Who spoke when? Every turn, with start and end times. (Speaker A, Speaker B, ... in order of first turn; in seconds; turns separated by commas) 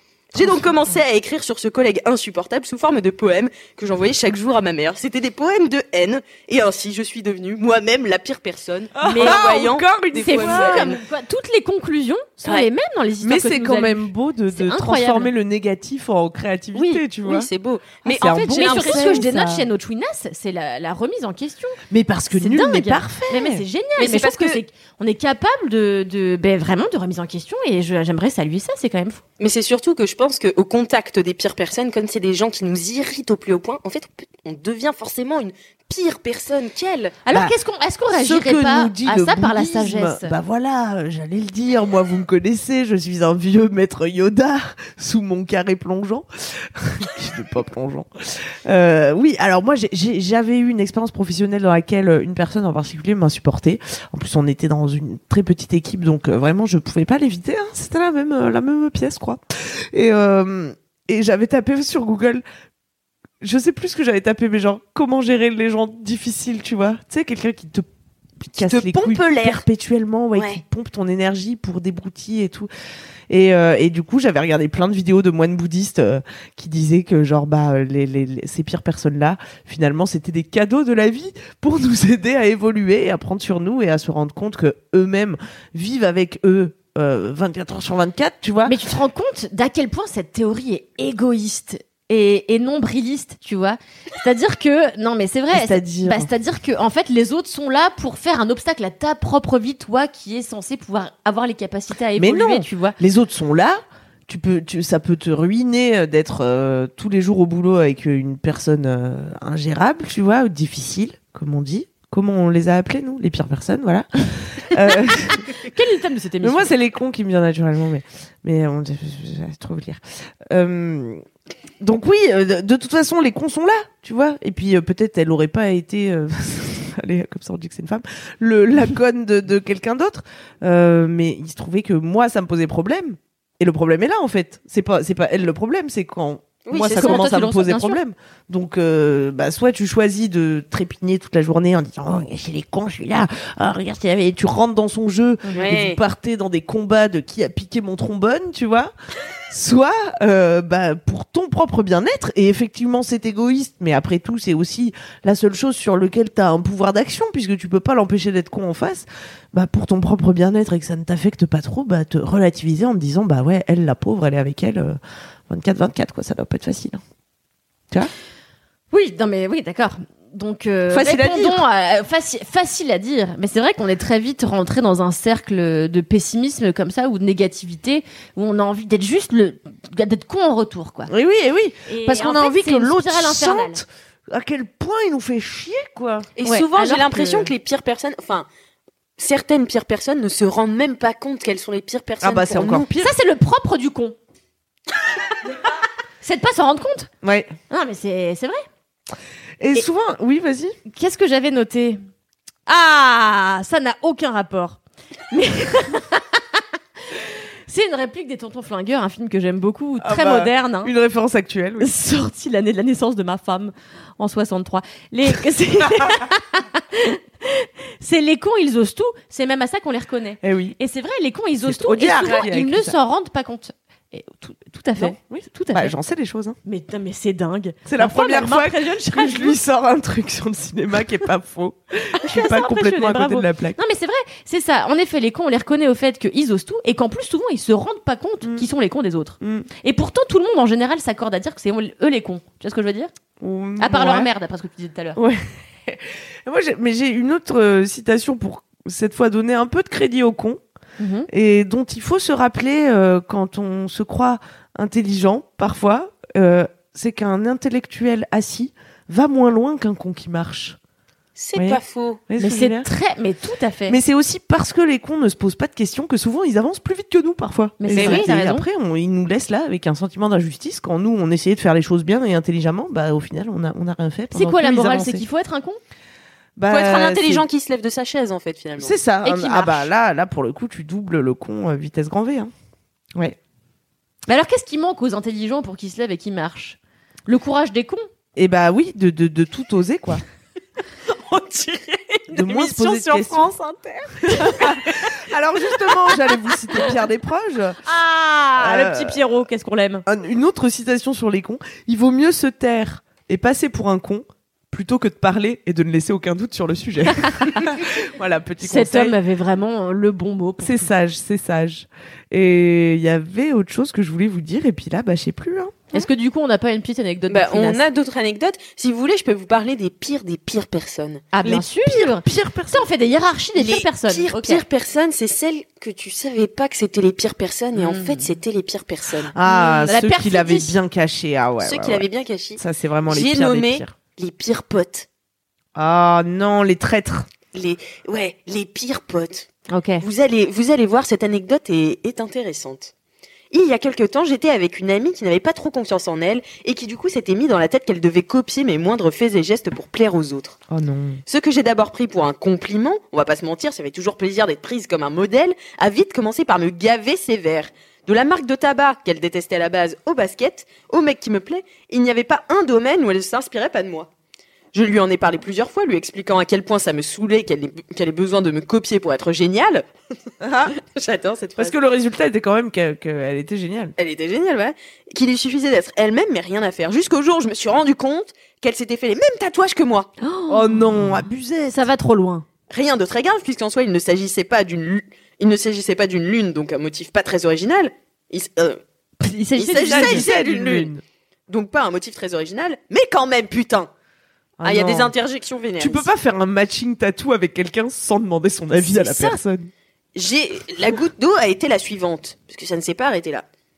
Speaker A: 0.3-11.0, Speaker B: 0.4-0.7, Speaker B: 9.0-10.9, Speaker C: 9.0-9.4, Speaker C: 10.2-15.3, Speaker B: 13.2-17.5, Speaker A: 16.8-19.3, Speaker B: 18.1-19.7, Speaker C: 18.4-21.8, Speaker B: 21.9-23.6, Speaker C: 22.3-29.2, Speaker A: 24.0-24.6, Speaker A: 29.4-37.2, Speaker C: 37.2-40.3, Speaker B: 38.1-62.4, Speaker B: 63.4-67.9, Speaker B: 68.4-72.7, Speaker A: 68.6-69.6, Speaker A: 70.3-70.6, Speaker B: 73.3-88.8, Speaker C: 88.7-103.0, Speaker B: 95.5-96.3, Speaker B: 102.2-115.5, Speaker C: 115.4-116.7, Speaker B: 116.4-121.2, Speaker B: 121.8-148.9, Speaker A: 136.7-137.3, Speaker C: 136.9-138.0, Speaker A: 145.5-146.0, Speaker B: 149.5-165.0, Speaker B: 165.5-167.0, Speaker C: 168.9-181.1, Speaker B: 170.9-171.6, Speaker B: 181.1-186.3, Speaker C: 181.9-183.8, Speaker A: 186.4-188.5, Speaker C: 186.4-187.5, Speaker A: 189.2-192.9, Speaker B: 192.2-193.1, Speaker C: 193.0-194.2, Speaker C: 196.2-197.1, Speaker B: 197.2-197.6, Speaker C: 197.7-198.6, Speaker B: 199.6-200.8, Speaker C: 200.9-202.0, Speaker C: 202.7-204.8, Speaker C: 205.3-206.6, Speaker C: 207.2-210.9, Speaker B: 210.0-211.9, Speaker C: 211.8-225.9, Speaker B: 220.4-220.8, Speaker B: 221.6-222.9, Speaker B: 225.0-226.6, Speaker C: 226.7-229.6, Speaker B: 227.9-233.8, Speaker C: 232.2-243.1, Speaker B: 239.4-239.7, Speaker B: 243.4-244.3, Speaker C: 243.8-245.2, Speaker B: 245.2-250.6, Speaker C: 251.0-251.3, Speaker B: 251.3-260.8, Speaker A: 261.4-262.2, Speaker B: 261.6-262.9, Speaker C: 262.4-264.0, Speaker B: 263.9-275.2, Speaker C: 267.8-268.6, Speaker A: 267.9-268.3, Speaker C: 274.3-275.8, Speaker B: 276.6-277.4, Speaker A: 276.7-279.0, Speaker B: 278.8-282.5, Speaker C: 279.2-279.9, Speaker C: 284.3-288.1, Speaker B: 288.4-290.2, Speaker A: 291.1-294.7, Speaker B: 292.3-293.4, Speaker B: 294.4-297.8, Speaker C: 297.9-300.1, Speaker B: 298.6-299.2, Speaker B: 300.1-309.2, Speaker C: 307.2-307.7, Speaker C: 308.6-310.9, Speaker B: 310.6-316.0, Speaker C: 315.9-317.8, Speaker A: 317.3-321.3, Speaker C: 321.3-324.6, Speaker B: 321.4-322.9, Speaker A: 323.6-329.3, Speaker C: 327.8-328.3, Speaker B: 329.3-332.1, Speaker C: 329.4-330.8, Speaker A: 331.6-335.1, Speaker B: 332.6-333.9, Speaker B: 335.8-337.3, Speaker A: 337.5-339.5, Speaker C: 339.7-340.1, Speaker A: 340.0-342.9, Speaker A: 343.5-350.6, Speaker B: 350.7-351.2, Speaker A: 351.3-364.1, Speaker A: 364.7-369.9, Speaker B: 370.4-370.7, Speaker A: 370.7-371.8, Speaker B: 371.6-373.9, Speaker A: 374.0-380.1, Speaker C: 380.2-381.2, Speaker B: 380.5-381.9, Speaker C: 381.7-382.4, Speaker A: 382.7-388.8, Speaker C: 389.2-390.3, Speaker A: 389.6-390.9, Speaker B: 389.8-391.0, Speaker A: 391.5-393.9, Speaker B: 394.6-395.1, Speaker A: 394.6-396.1, Speaker B: 395.8-399.7, Speaker C: 398.9-399.3, Speaker A: 400.1-403.5